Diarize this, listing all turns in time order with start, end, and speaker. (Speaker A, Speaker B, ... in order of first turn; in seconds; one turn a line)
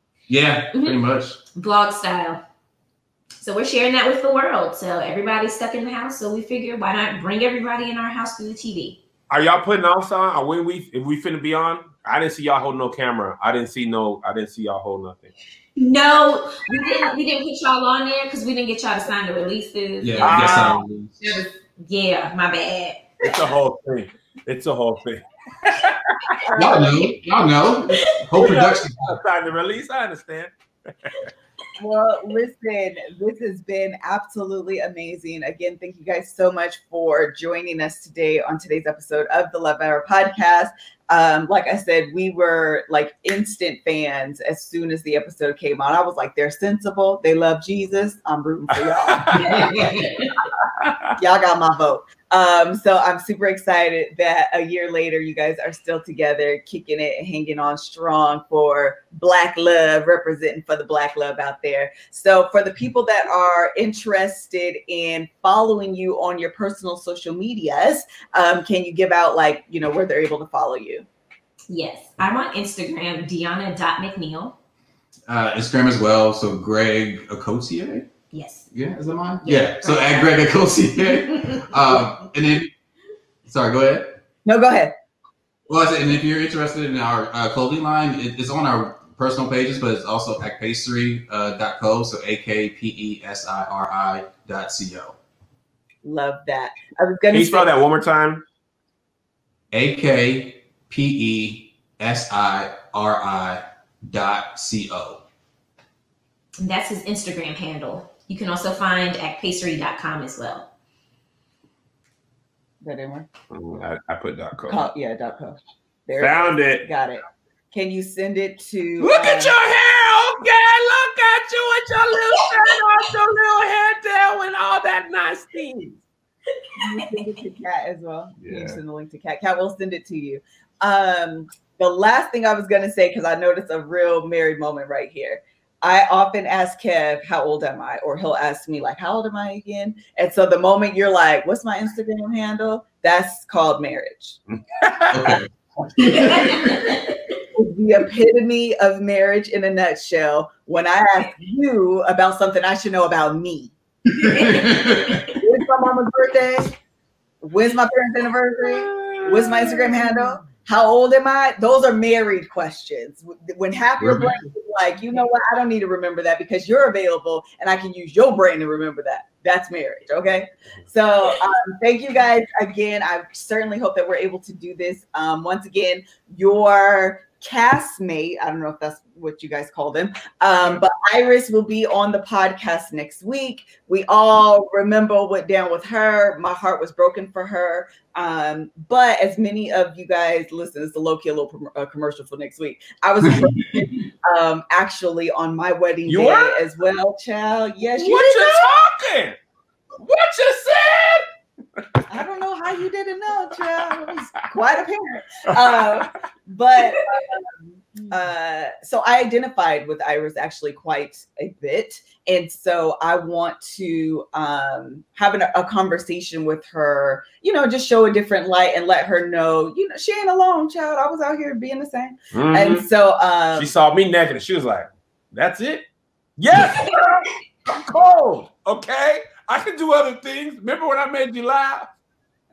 Speaker A: 0.3-1.4
Speaker B: 0.7-1.0
Speaker B: 1.6-2.4
Speaker B: 3.4-9.0
Speaker C: 9.3-15.3
Speaker B: 15.8-23.3
Speaker A: 20.0-21.2
Speaker C: 20.2-20.8
Speaker C: 23.2-26.4
Speaker D: 26.4-27.1
Speaker A: 26.6-29.2
Speaker C: 28.4-30.5
Speaker D: 31.8-49.6
Speaker B: 49.3-50.4
Speaker A: 49.5-50.0
Speaker C: 50.8-51.1
Speaker D: 51.2-71.1
Speaker B: 71.7-74.5
Speaker A: 75.3-78.1
Speaker B: 78.3-78.7
Speaker A: 78.7-82.7
Speaker B: 79.4-80.4
Speaker B: 81.3-82.0
Speaker A: 83.5-84.2
Speaker D: 84.5-85.0
Speaker A: 85.7-95.2
Speaker D: 96.0-97.7
Speaker C: 97.3-98.5
Speaker A: 99.7-105.2
Speaker B: 106.6-110.7
Speaker D: 112.8-113.3
Speaker C: 113.5-114.9
Speaker D: 114.7-119.5
Speaker C: 116.2-116.9
Speaker C: 119.0-126.0
Speaker D: 126.8-144.4
Speaker C: 128.4-128.8
Speaker C: 144.8-145.2
Speaker A: 145.1-147.0
Speaker B: 146.1-147.2
Speaker D: 147.5-153.7
Speaker A: 154.1-155.3
Speaker B: 154.2-155.4
Speaker D: 155.3-156.8
Speaker D: 157.4-198.8
Speaker C: 158.8-160.1
Speaker A: 164.0-164.4
Speaker A: 193.3-193.8
Speaker C: 196.1-196.6
Speaker C: 198.0-199.4
Speaker C: 200.0-201.3
Speaker D: 202.1-207.5
Speaker D: 208.1-223.7
Speaker C: 222.3-222.8
Speaker C: 223.6-225.8
Speaker C: 226.4-231.9